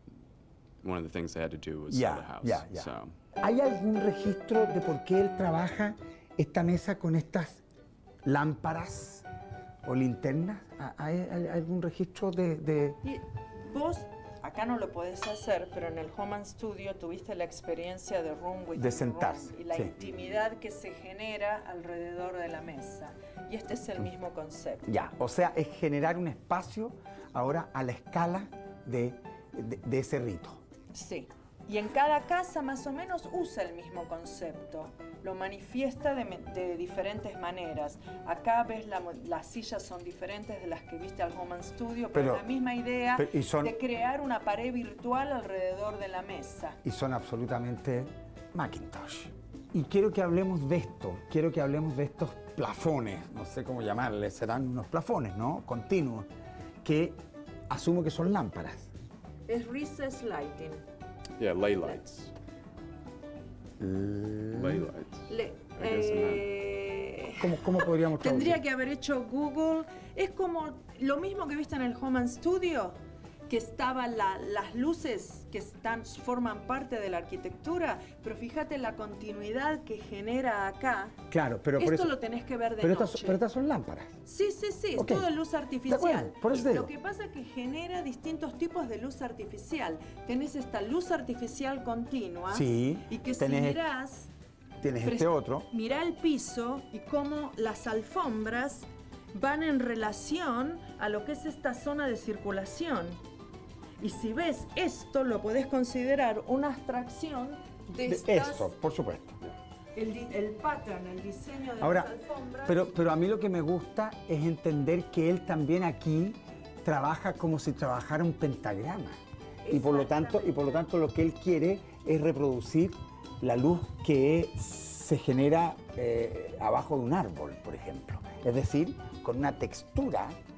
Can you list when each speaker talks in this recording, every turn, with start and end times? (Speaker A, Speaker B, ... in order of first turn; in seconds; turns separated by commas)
Speaker A: 0.8-3.1, Speaker B: 1.9-7.6, Speaker B: 8.2-9.2, Speaker B: 9.8-13.0, Speaker C: 13.0-24.9, Speaker B: 18.8-19.9, Speaker B: 24.9-30.6, Speaker C: 30.9-46.8, Speaker B: 42.1-42.4, Speaker B: 43.2-43.7, Speaker B: 46.8-56.3, Speaker B: 56.8-58.9, Speaker C: 59.5-60.8, Speaker A: 61.4-62.3, Speaker B: 63.8-64.9, Speaker A: 64.5-66.5, Speaker C: 65.3-73.0, Speaker B: 67.4-68.6, Speaker C: 73.5-81.2, Speaker B: 81.3-82.1, Speaker C: 81.8-83.4, Speaker B: 82.8-84.2, Speaker C: 84.2-94.3, Speaker B: 85.0-85.3, Speaker B: 85.9-86.9, Speaker B: 92.5-93.8, Speaker B: 94.8-95.7, Speaker C: 95.0-103.2, Speaker C: 104.0-108.7, Speaker B: 108.1-109.4, Speaker C: 110.0-112.9, Speaker B: 111.8-112.1, Speaker B: 112.7-130.4, Speaker C: 119.6-120.8